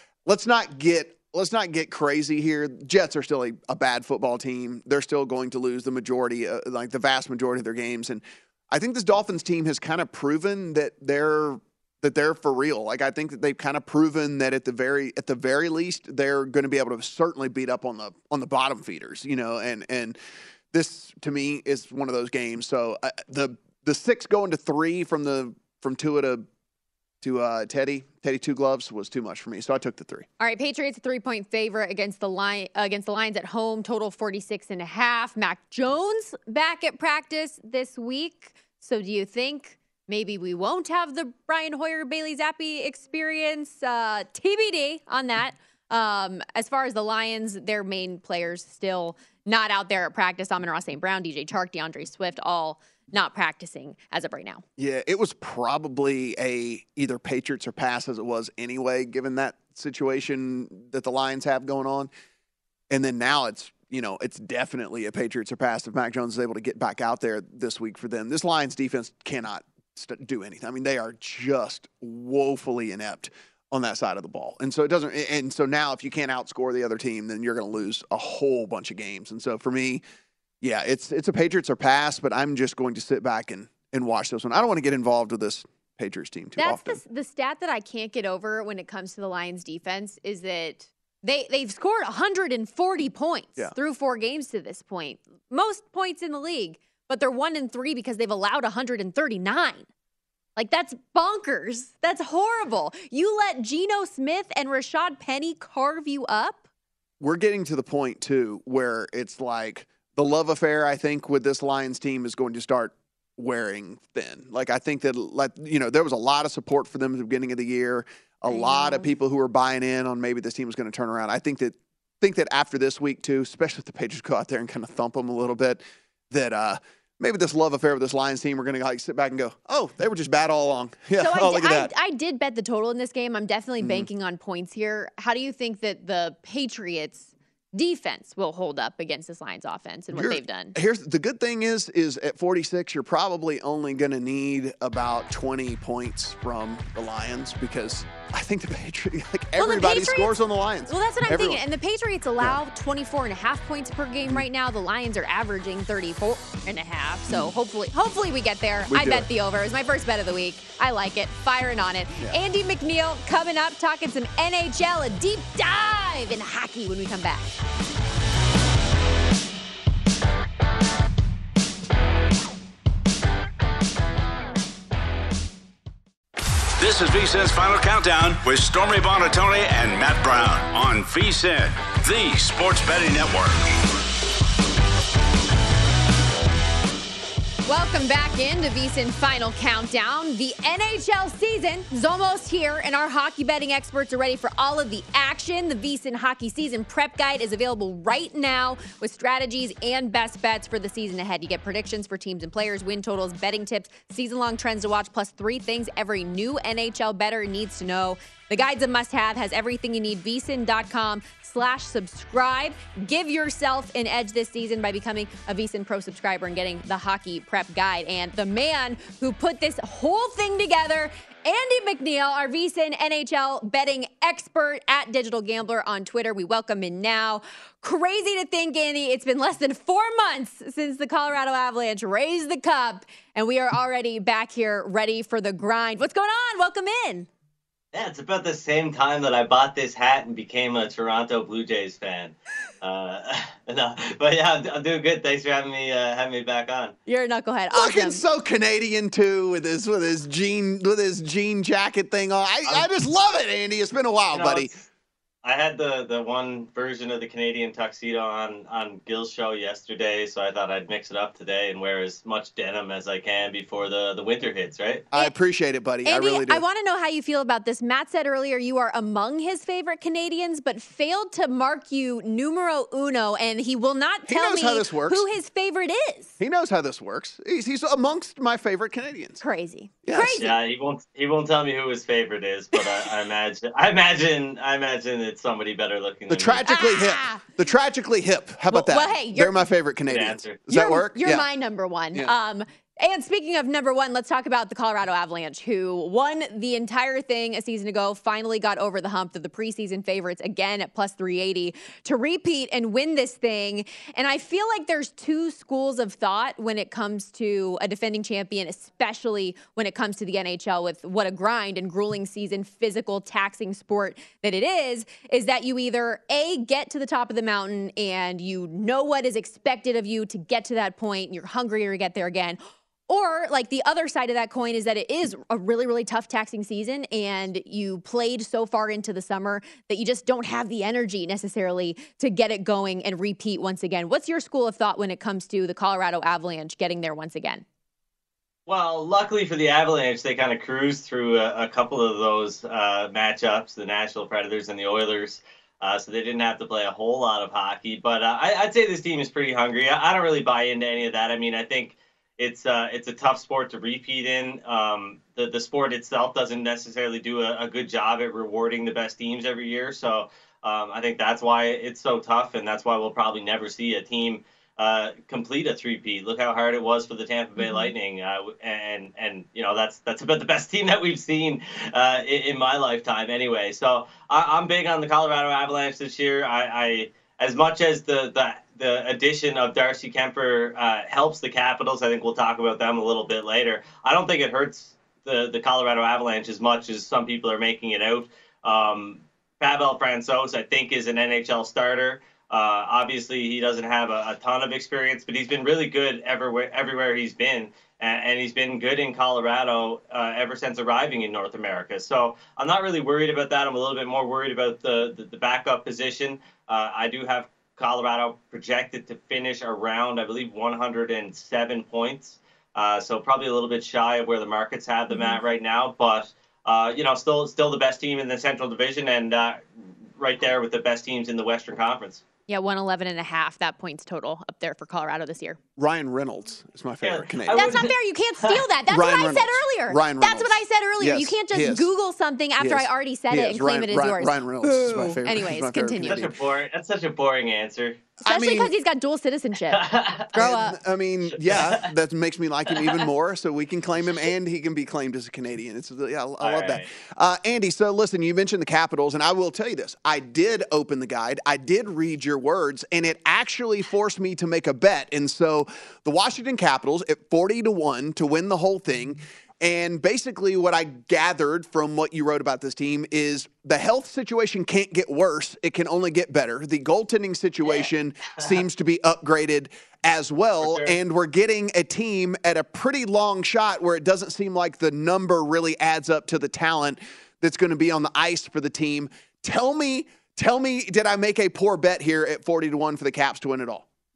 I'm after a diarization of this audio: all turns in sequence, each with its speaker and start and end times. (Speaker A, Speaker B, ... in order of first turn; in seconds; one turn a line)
Speaker A: 0.2-20.2
Speaker A: 20.7-26.4
Speaker A: 27.2-30.3
Speaker B: 30.4-54.6
Speaker A: 54.8-62.1
Speaker A: 62.9-80.0
Speaker A: 80.6-87.0
Speaker B: 86.6-99.9
Speaker B: 100.5-106.6
Speaker A: 107.2-131.9
Speaker B: 118.5-119.1
Speaker B: 131.2-140.8
Speaker A: 133.8-134.1
Speaker A: 140.1-151.6
Speaker B: 149.6-150.3
Speaker B: 150.9-167.5
Speaker A: 158.9-159.3
Speaker C: 176.8-183.7
Speaker B: 187.7-237.3
Speaker D: 237.9-246.9
Speaker B: 247.1-248.2
Speaker A: 247.7-254.8
Speaker D: 254.3-254.7
Speaker D: 255.4-265.1
Speaker A: 265.1-266.6
Speaker B: 266.0-276.4
Speaker A: 274.3-275.2
Speaker A: 276.4-279.4
Speaker B: 279.4-280.6
Speaker A: 280.0-280.4
Speaker D: 280.4-286.6
Speaker A: 286.3-291.4
Speaker B: 286.6-287.4
Speaker B: 288.7-289.6
Speaker D: 290.1-290.7
Speaker B: 290.7-337.6
Speaker D: 338.7-419.6
Speaker B: 367.6-367.9
Speaker B: 415.1-415.4
Speaker D: 420.2-422.2
Speaker B: 422.5-425.6
Speaker A: 425.8-427.8
Speaker D: 427.0-428.6
Speaker B: 427.5-436.2
Speaker A: 428.9-431.9
Speaker A: 432.6-436.3
Speaker D: 436.0-438.1
Speaker A: 438.2-438.7
Speaker B: 438.2-440.8
Speaker D: 439.7-440.3
Speaker A: 440.3-483.8
Speaker D: 441.3-441.9
Speaker D: 442.7-443.0
Speaker D: 446.4-446.9
Speaker D: 470.6-471.0